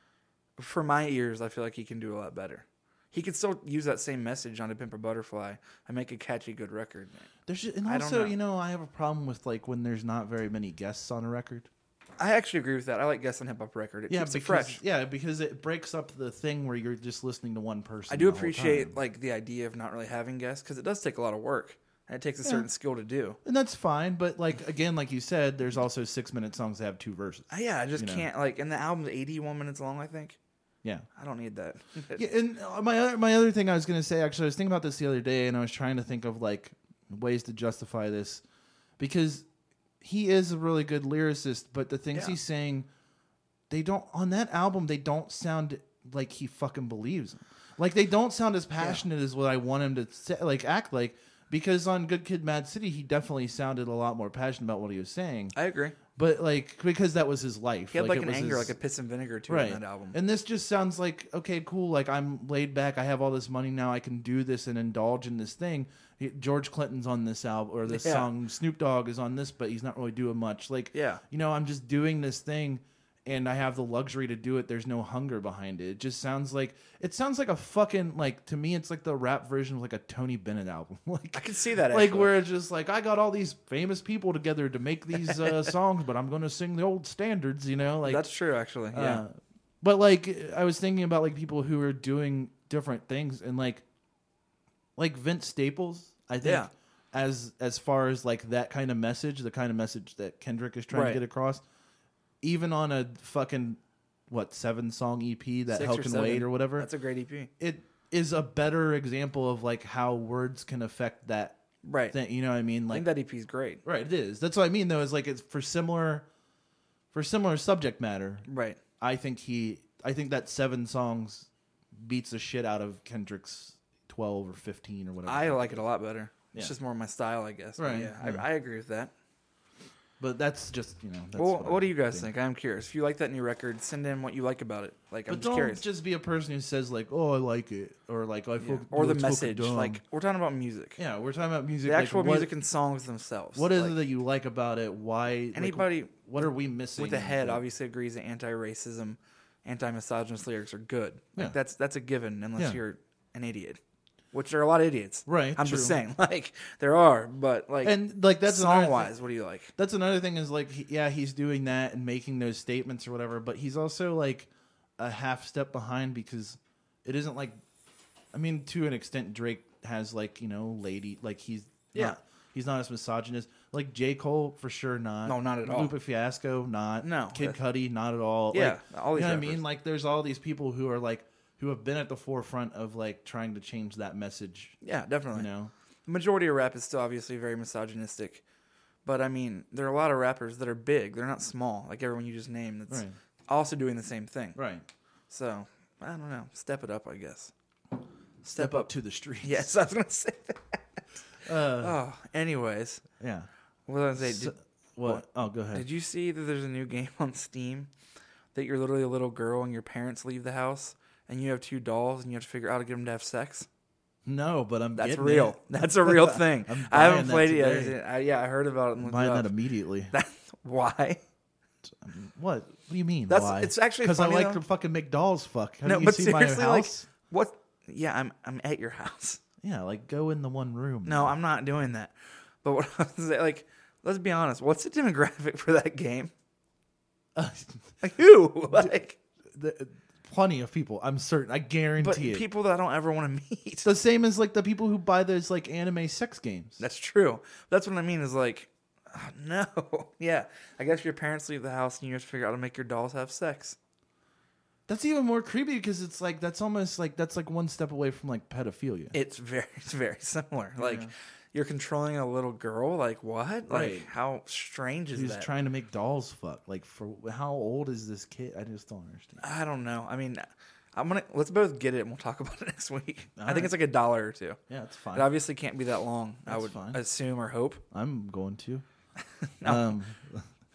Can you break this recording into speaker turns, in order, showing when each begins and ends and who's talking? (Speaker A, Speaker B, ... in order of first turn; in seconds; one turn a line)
Speaker A: 0.6-7.3
Speaker B: 7.5-11.7
Speaker A: 7.8-8.4
Speaker A: 12.2-14.8
Speaker B: 14.1-19.0
Speaker A: 18.1-23.4
Speaker B: 23.4-28.3
Speaker A: 27.5-30.4
Speaker A: 31.2-32.2
Speaker B: 32.1-38.4
Speaker B: 39.0-39.5
Speaker B: 40.0-42.9
Speaker B: 43.7-55.5
Speaker A: 48.8-49.0
Speaker A: 55.5-56.0
Speaker B: 56.1-58.7
Speaker A: 57.9-60.2
Speaker B: 59.5-88.3
Speaker A: 67.9-68.3
Speaker A: 70.9-71.2
Speaker A: 81.3-82.4
Speaker A: 88.0-89.2
Speaker B: 88.9-93.8
Speaker B: 95.0-101.6
Speaker A: 96.4-96.7
Speaker A: 100.9-101.2
Speaker B: 102.4-106.9
Speaker A: 105.7-107.5
Speaker B: 107.6-111.6
Speaker A: 111.8-112.2
Speaker B: 112.1-113.1
Speaker A: 112.9-113.8
Speaker B: 113.8-116.3
Speaker B: 117.1-118.5
Speaker A: 118.5-118.8
Speaker B: 119.0-125.8
Speaker A: 125.3-129.1
Speaker B: 127.8-128.5
Speaker B: 130.2-132.3
Speaker A: 131.3-135.8
Speaker B: 135.3-140.0
Speaker A: 138.6-141.0
Speaker B: 141.0-142.5
Speaker A: 141.8-144.0
Speaker B: 143.6-147.6
Speaker A: 145.5-153.8
Speaker A: 154.3-159.7
Speaker B: 155.3-156.0
Speaker B: 157.8-159.1
Speaker B: 159.8-167.6
Speaker B: 168.3-184.8
Speaker A: 175.2-175.9
Speaker A: 177.0-177.6
Speaker A: 178.5-179.6
Speaker A: 184.8-185.5
Speaker B: 185.3-185.7
Speaker A: 186.1-188.4
Speaker A: 189.1-194.6
Speaker B: 192.9-193.2
Speaker B: 194.6-194.9
Speaker A: 195.3-197.5
Speaker A: 198.4-198.9
Speaker B: 198.5-199.8
Speaker A: 199.4-201.0
Speaker B: 201.4-202.0
Speaker A: 201.8-203.1
Speaker B: 203.2-203.5
Speaker A: 203.9-207.9
Speaker B: 204.2-205.8
Speaker A: 208.6-213.7
Speaker B: 214.2-218.0
Speaker A: 214.9-219.5
Speaker B: 219.0-220.1
Speaker A: 220.1-221.2
Speaker B: 221.8-227.1
Speaker A: 223.3-224.6
Speaker A: 225.8-229.4
Speaker B: 229.6-231.3
Speaker A: 231.1-236.3
Speaker B: 237.3-238.0
Speaker A: 238.0-239.2
Speaker B: 238.7-239.0
Speaker B: 239.5-242.5
Speaker A: 242.0-243.9
Speaker B: 243.8-246.8
Speaker A: 246.8-253.8
Speaker B: 254.9-259.1
Speaker A: 259.1-265.5
Speaker B: 260.8-261.1
Speaker B: 263.7-264.1
Speaker B: 265.1-269.4
Speaker A: 269.4-274.6
Speaker B: 273.4-273.8
Speaker B: 274.7-275.3
Speaker A: 275.1-277.8
Speaker B: 276.5-277.0
Speaker B: 277.9-278.9
Speaker A: 279.4-280.0
Speaker B: 279.6-280.5